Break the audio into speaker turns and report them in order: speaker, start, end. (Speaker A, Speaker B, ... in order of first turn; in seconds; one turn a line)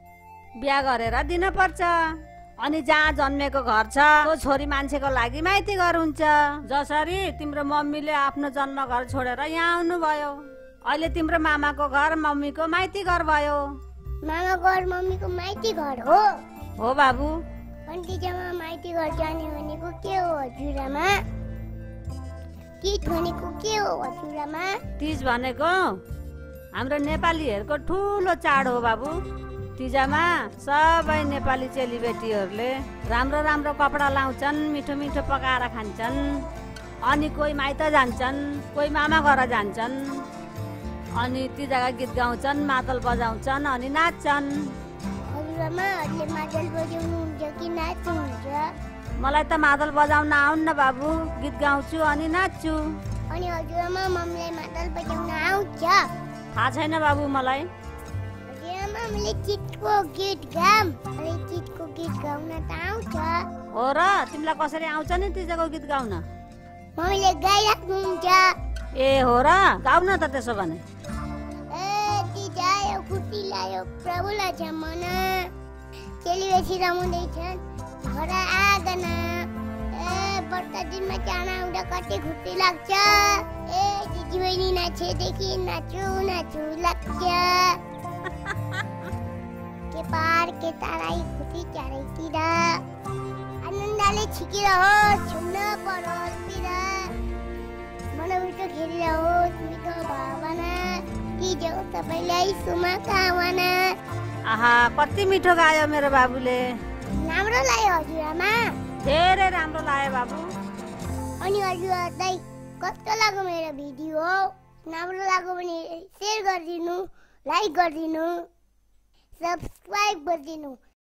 Speaker A: 0.6-1.9
Speaker A: 2.6-13.6
Speaker B: 14.2-16.3
Speaker A: 16.8-17.4
Speaker B: 17.9-21.2
Speaker B: 22.8-24.8
Speaker A: 25.0-26.0
Speaker A: 26.7-29.1
Speaker A: 29.8-36.5
Speaker A: 37.0-40.2
Speaker A: 41.1-44.7
Speaker B: 45.3-48.7
Speaker A: 49.2-52.8
Speaker B: 53.3-56.1
Speaker A: 56.5-57.7
Speaker B: 58.5-63.5
Speaker A: 63.7-66.2
Speaker B: 67.0-68.5
Speaker A: 69.0-70.8
Speaker B: 71.7-75.5
Speaker B: 76.2-87.8
Speaker B: 89.9-92.8
Speaker B: 93.6-97.1
Speaker B: 98.1-104.0
Speaker A: 104.4-106.8
Speaker B: 107.2-108.8
Speaker A: 109.0-110.5
Speaker B: 111.4-118.5
Speaker B: 119.4-120.8